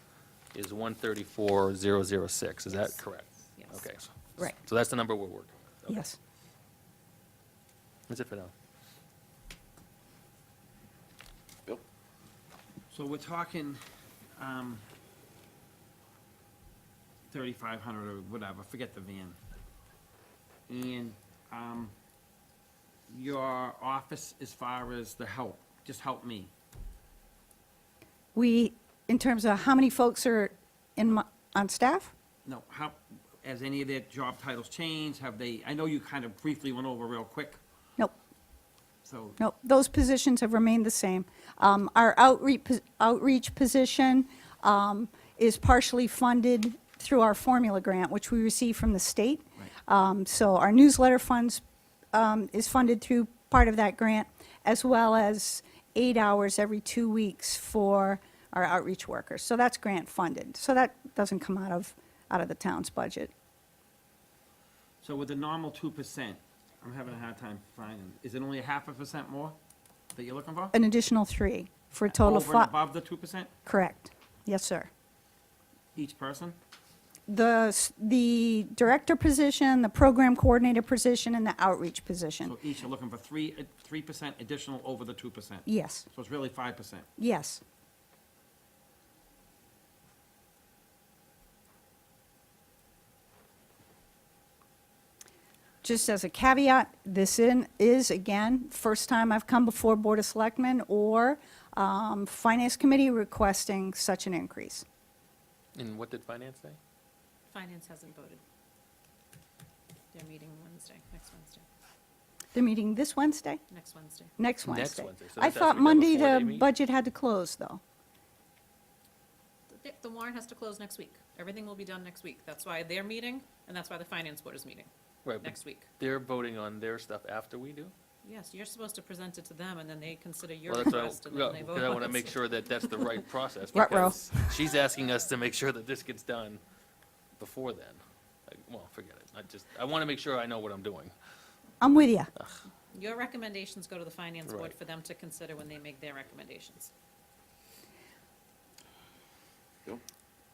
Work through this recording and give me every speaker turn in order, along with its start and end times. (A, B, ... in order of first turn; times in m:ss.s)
0:00.5-0:06.0 A
0:03.6-0:03.8 B
0:05.9-0:06.2 C
0:08.1-0:08.5 A
0:12.9-0:13.8 D
0:14.4-0:14.8 D
0:17.3-0:19.4 D
0:20.7-0:21.9 D
0:23.1-0:26.5 D
0:28.3-0:32.1 C
0:32.4-0:37.6 D
0:39.0-0:39.4 D
0:39.4-1:03.3 C
1:05.0-1:09.6 D
1:10.1-1:10.7 D
1:10.7-1:12.7 C
1:12.1-1:13.5 D
1:13.6-1:14.9 C
1:16.0-1:16.6 D
1:17.3-1:22.6 C
1:22.4-1:27.1 D
1:25.7-1:26.1 C
1:27.2-1:27.6 C
1:35.8-1:44.8 C
1:45.8-1:46.8 A
1:47.5-1:48.4 B
1:50.1-1:51.7 B
1:52.5-1:53.6 C
1:53.7-1:54.3 B
1:54.4-1:57.8 C
1:54.7-1:56.7 A
1:59.7-2:05.9 B
2:05.2-2:07.9 A
2:08.2-2:13.2 B
2:10.7-2:16.6 A
2:13.7-2:14.6 C
2:17.4-2:21.1 A
2:21.8-2:22.3 C
2:22.9-2:26.9 B
2:24.5-2:24.7 A